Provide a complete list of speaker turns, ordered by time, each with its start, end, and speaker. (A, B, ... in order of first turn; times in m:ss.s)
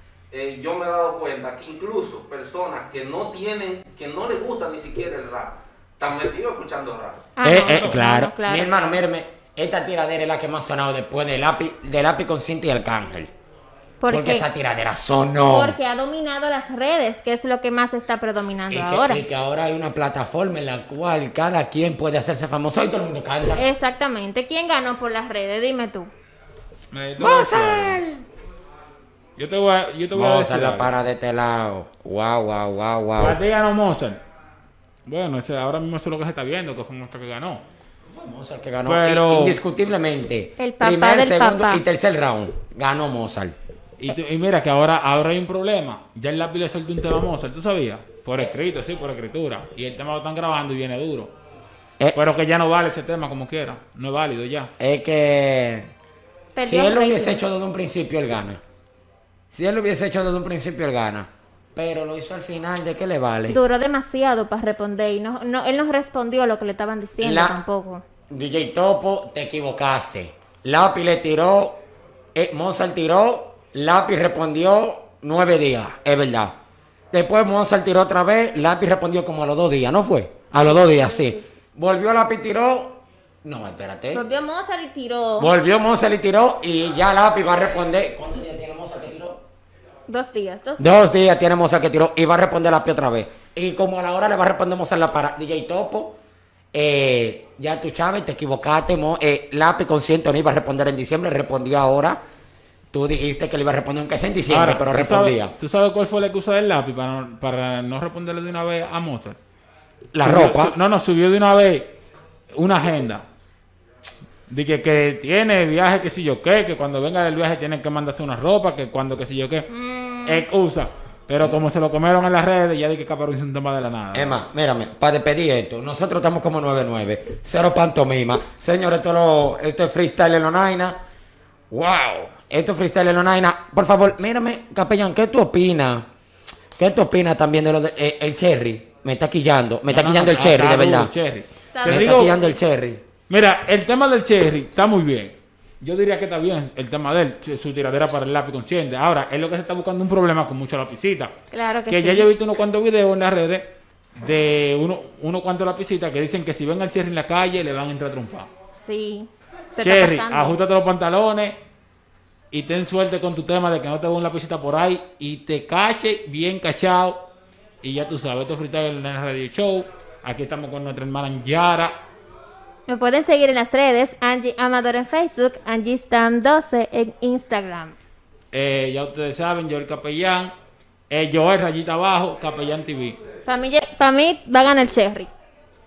0:00.3-0:07.2 A
0:07.4-0:09.0 B
0:07.4-0:13.3 C
0:07.4-0:08.0 D
0:14.0-0:14.5 B
0:14.1-0:15.8 C
0:15.5-0:19.2 B
0:18.7-0:23.6 C
0:23.5-0:26.1 B
0:26.9-0:28.0 D
0:27.2-0:28.2 C
0:29.4-0:30.9 D
0:30.1-0:33.4 C
0:33.2-0:34.2 D
0:35.0-0:37.6 D
0:38.1-0:43.5 C
0:38.8-0:39.6 D
0:40.6-0:41.8 B
0:44.0-0:51.3 D
0:52.1-0:54.7 D
0:54.8-0:55.9 C
0:56.5-0:57.4 B
0:56.6-0:58.6 C
0:59.5-1:03.6 C
1:03.5-1:08.0 B
1:07.2-1:07.6 C
1:08.3-1:11.8 C
1:12.3-1:16.5 C
1:17.1-1:24.2 C
1:20.6-1:21.4 B
1:24.1-1:25.5 B
1:25.4-1:29.4 C
1:30.1-1:30.9 B
1:30.8-1:36.1 C
1:36.7-1:42.2 C
1:42.9-1:45.5 C
1:44.5-1:49.4 D
1:50.1-1:50.8 C
1:50.2-1:52.0 D
1:52.5-1:53.2 D
1:54.5-1:59.7 D
1:59.7-2:00.4 B
2:00.2-2:04.4 D
2:04.1-2:11.0 C
2:11.7-2:16.0 C
2:16.8-2:21.1 C
2:19.9-2:22.4 D
2:21.7-2:22.6 B
2:21.8-2:23.0 C
2:23.3-2:31.3 D
2:31.5-2:32.3 B
2:31.9-2:38.5 D
2:38.8-2:40.6 B
2:39.8-2:41.6 D
2:42.5-2:47.3 D
2:47.8-2:52.0 D
2:52.9-2:57.9 B
2:58.5-3:00.5 D
3:01.1-3:03.2 D
3:03.4-3:05.3 B